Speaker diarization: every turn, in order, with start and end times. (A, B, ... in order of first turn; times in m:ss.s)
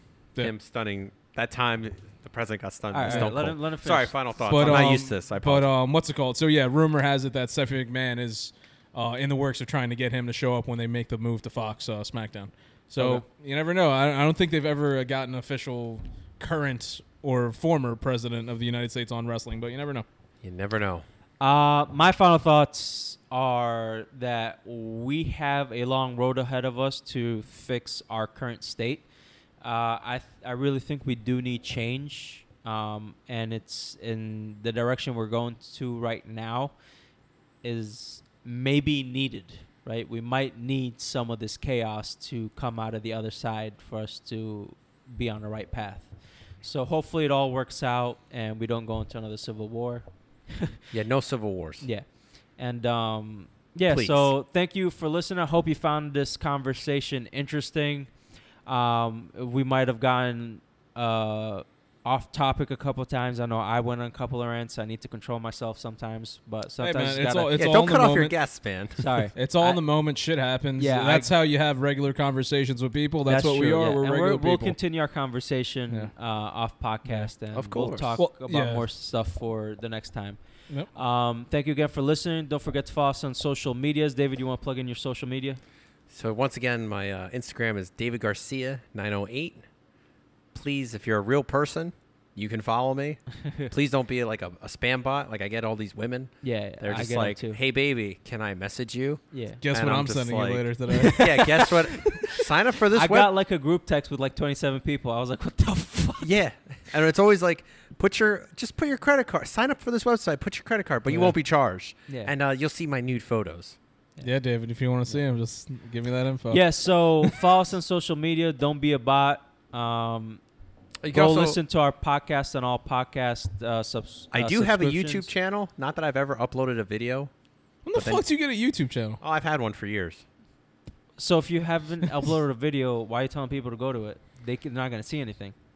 0:00.4-0:05.7 A
0:02.9-0:04.1 B
0:03.0-0:03.3 C
0:04.4-0:20.0 C
0:20.4-0:21.0 A
0:21.4-0:29.0 B
0:29.6-0:36.7 B
0:37.6-0:50.8 B
0:50.9-0:51.8 A
0:52.6-0:58.1 B
0:53.9-0:54.3 A
0:58.6-1:07.6 B
1:06.8-1:08.4 C
1:07.5-1:09.1 A
1:09.0-1:09.8 B
1:09.4-1:14.8 C
1:10.8-1:11.3 B
1:13.2-1:20.4 B
1:17.5-1:18.2 A
1:18.2-1:18.8 C
1:20.9-1:25.6 B
1:26.1-1:29.6 A
1:30.5-1:43.3 A
1:36.4-1:37.6 B
1:39.3-1:39.6 B
1:39.6-1:41.3 C
1:40.9-1:46.3 B
1:46.2-1:53.8 A
1:54.2-1:56.6 C
1:56.5-2:00.4 B
2:01.0-2:01.6 A
2:01.1-2:05.3 B
2:04.3-2:07.3 A
2:07.8-2:09.2 C
2:07.9-2:08.2 A
2:09.2-2:10.2 A
2:11.2-2:15.5 B